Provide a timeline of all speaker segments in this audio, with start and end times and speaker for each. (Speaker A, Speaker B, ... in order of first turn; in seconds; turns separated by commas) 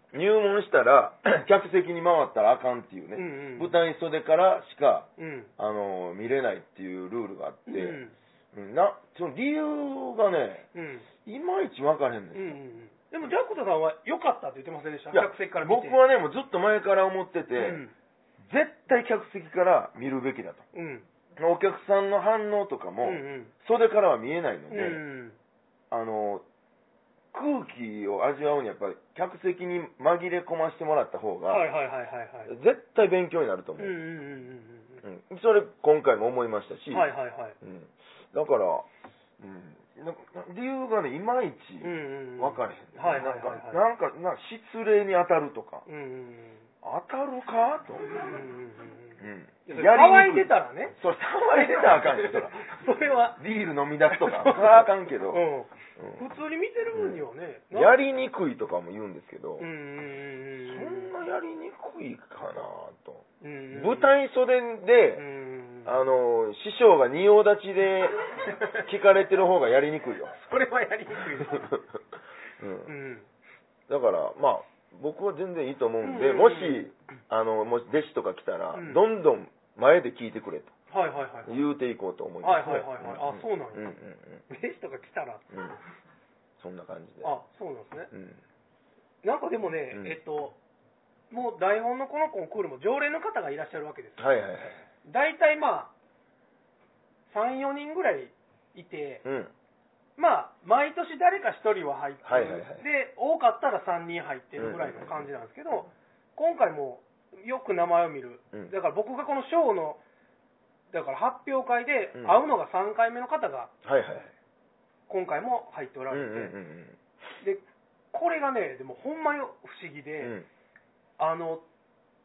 Speaker A: 0.1-10.7, Speaker B: 3.1-3.7, Speaker B: 5.2-5.5, Speaker B: 7.7-8.1, Speaker B: 10.7-11.1, Speaker A: 11.2-12.6, Speaker B: 12.3-16.0, Speaker A: 15.1-17.8, Speaker B: 17.6-17.9, Speaker A: 18.4-20.6, Speaker B: 20.7-21.1, Speaker A: 21.4-25.0, Speaker B: 23.0-23.5, Speaker B: 24.7-25.4, Speaker A: 25.9-26.4, Speaker A: 27.3-31.7, Speaker B: 31.5-32.5, Speaker A: 32.5-34.0, Speaker B: 33.8-35.0, Speaker A: 35.0-37.1, Speaker B: 36.9-37.5, Speaker A: 37.6-38.9, Speaker A: 39.4-45.9, Speaker B: 41.8-43.8, Speaker B: 45.9-46.7, Speaker A: 46.8-48.1, Speaker B: 48.0-51.0, Speaker A: 49.2-52.8, Speaker B: 51.5-53.4, Speaker A: 53.3-55.4, Speaker B: 54.1-58.0, Speaker A: 56.0-56.2, Speaker A: 56.9-59.7, Speaker B: 59.6-61.1, Speaker A: 60.6-65.2, Speaker B: 63.4-64.1, Speaker B: 65.2-66.0, Speaker A: 65.8-68.2, Speaker B: 68.4-68.8, Speaker A: 68.8-70.4, Speaker B: 70.3-71.8, Speaker A: 71.5-71.8, Speaker A: 72.6-72.9, Speaker B: 72.8-73.3, Speaker A: 73.9-80.7, Speaker B: 76.0-76.9, Speaker B: 78.7-79.0, Speaker B: 80.9-81.7, Speaker A: 81.5-84.4, Speaker B: 82.4-83.9, Speaker B: 84.5-85.4, Speaker A: 85.5-85.8, Speaker A: 86.6-87.4, Speaker B: 87.2-88.1, Speaker A: 88.1-88.4, Speaker B: 89.2-90.6, Speaker A: 89.9-90.2, Speaker B: 91.3-94.3, Speaker A: 94.2-94.8, Speaker B: 95.0-95.9, Speaker B: 97.3-99.2, Speaker A: 99.2-99.5, Speaker B: 100.2-110.0, Speaker A: 102.2-102.8, Speaker A: 104.6-105.3, Speaker B: 110.9-113.7, Speaker A: 113.8-114.3, Speaker B: 115.1-116.5, Speaker A: 116.1-117.0, Speaker B: 117.4-120.4, Speaker A: 120.2-120.5, Speaker B: 121.2-121.6